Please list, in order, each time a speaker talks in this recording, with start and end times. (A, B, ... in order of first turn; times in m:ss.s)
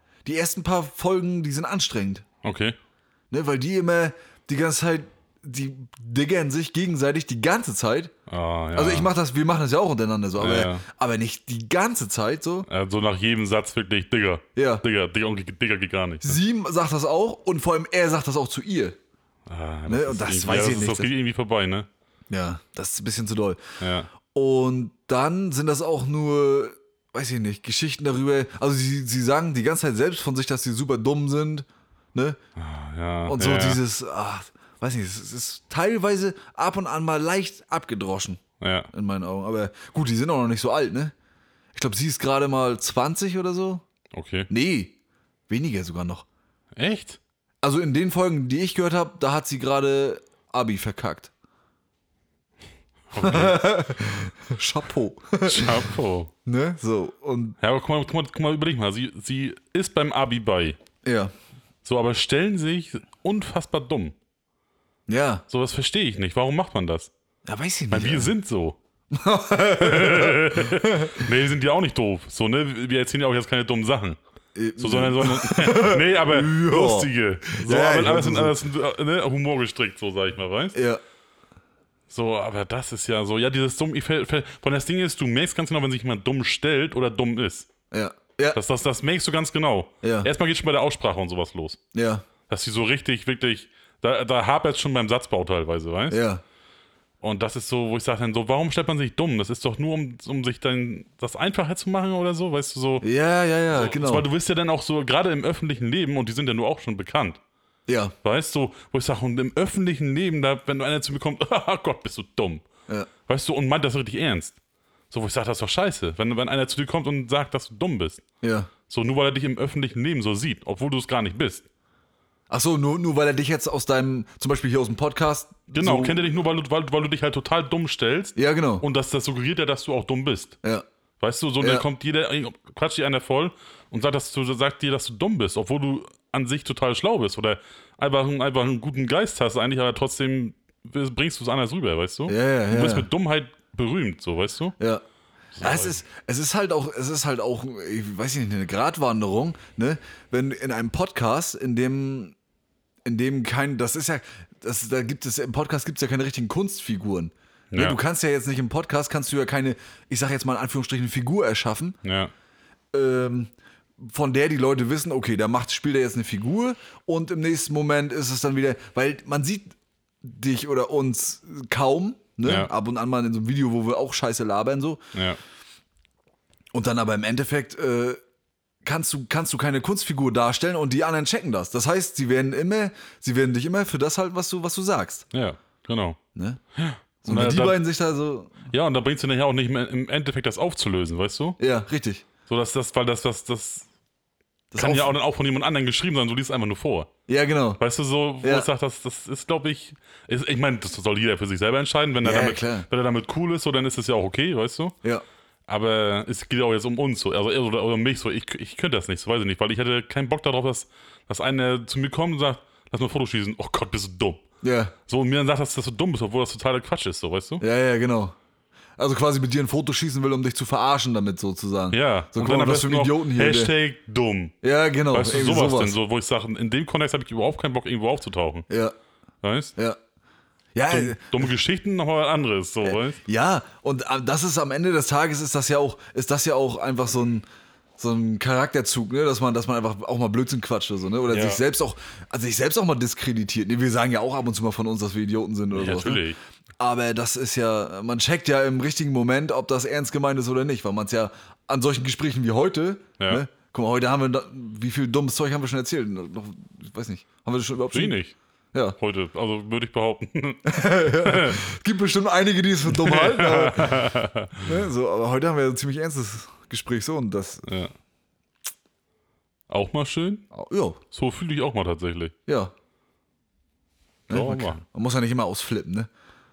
0:00.2-0:02.2 A
0:02.4-0:02.8 B
0:03.3-0:08.1 A
0:08.3-0:09.1 B
0:08.7-0:12.7 A
0:10.4-0:10.8 B
0:12.7-0:16.4 B
0:14.6-0:14.8 A
0:16.2-0:19.0 A
0:19.5-0:21.9 B
0:19.9-0:21.1 A
0:22.3-0:23.6 A
0:23.8-0:24.1 B
0:24.3-0:32.4 A
0:32.6-0:33.8 B
0:33.3-0:38.4 A
0:38.6-0:38.9 B
0:38.9-0:41.1 A
0:41.7-0:43.8 A
0:44.1-0:44.5 B
0:44.5-0:45.0 A
0:45.5-0:46.2 A
0:46.8-0:47.2 B
0:47.6-0:51.3 A
0:53.1-0:53.6 B
0:53.2-0:55.9 A
0:55.4-0:56.3 B
0:56.4-0:57.6 A
0:57.6-1:00.8 B
1:01.0-1:01.3 A
1:01.8-1:04.2 B
1:05.1-1:05.4 A
1:05.5-1:07.1 B
1:07.4-1:08.3 A
1:07.9-1:08.8 B
1:09.1-1:11.2 A
1:09.8-1:14.2 B
1:14.6-1:18.6 A
1:14.8-1:20.8 B
1:20.7-1:21.0 A
1:22.1-1:27.7 B
1:27.9-1:28.6 A
1:28.5-1:31.8 B
1:30.0-1:30.3 A
1:31.9-1:32.2 A
1:32.5-1:36.2 B
1:36.1-1:36.4 A
1:37.2-1:43.0 B
1:43.0-1:44.3 A
1:43.7-1:47.4 B
1:47.9-1:48.1 A
1:48.2-1:52.6 B
1:53.3-1:54.6 B
1:55.1-1:58.2 B
1:58.4-1:58.7 A
1:58.9-2:01.7 B
2:02.5-2:06.2 A
2:05.8-2:10.6 B
2:08.4-2:08.8 A
2:11.2-2:24.8 B
2:11.6-2:11.8 A
2:22.3-2:23.1 A
2:25.5-2:26.0 B
2:25.6-2:32.3 A
2:33.0-2:42.0 A
2:37.7-2:38.0 B
2:42.0-2:42.3 B
2:42.9-2:49.7 A
2:50.2-2:55.0 A
2:52.4-2:52.7 B
2:55.1-2:55.4 B
2:56.7-2:58.2 A
2:58.8-3:05.2 A
3:05.3-3:06.2 B
3:06.3-3:06.6 A
3:06.8-3:07.8 B
3:07.2-3:08.6 A
3:08.7-3:11.6 B
3:11.6-3:12.2 A
3:12.5-3:13.9 B
3:14.7-3:15.1 A
3:14.8-3:17.1 B
3:17.3-3:17.8 A
3:17.8-3:25.0 B
3:18.4-3:18.7 A
3:22.2-3:22.9 A
3:25.7-3:34.4 B
3:34.6-3:34.9 A
3:35.1-3:37.6 B
3:37.6-3:38.3 A
3:39.0-3:43.7 A
3:41.9-3:44.5 B
3:44.6-3:46.0 A
3:45.1-3:48.7 B
3:48.7-3:48.9 A
3:49.4-3:49.7 B
3:50.7-3:51.5 A
3:50.9-3:53.2 B
3:52.8-3:57.4 A
3:58.0-4:06.2 A
4:01.3-4:01.6 B
4:05.7-4:06.4 B
4:06.8-4:18.2 A
4:13.2-4:13.4 B
4:17.9-4:18.3 B
4:19.0-4:21.6 B
4:20.6-4:27.6 A
4:22.9-4:24.6 B
4:27.6-4:27.9 B
4:29.7-4:30.4 B
4:30.5-4:31.0 A
4:31.1-4:32.3 B
4:32.5-4:32.7 A
4:34.3-4:34.8 B
4:34.3-4:36.1 A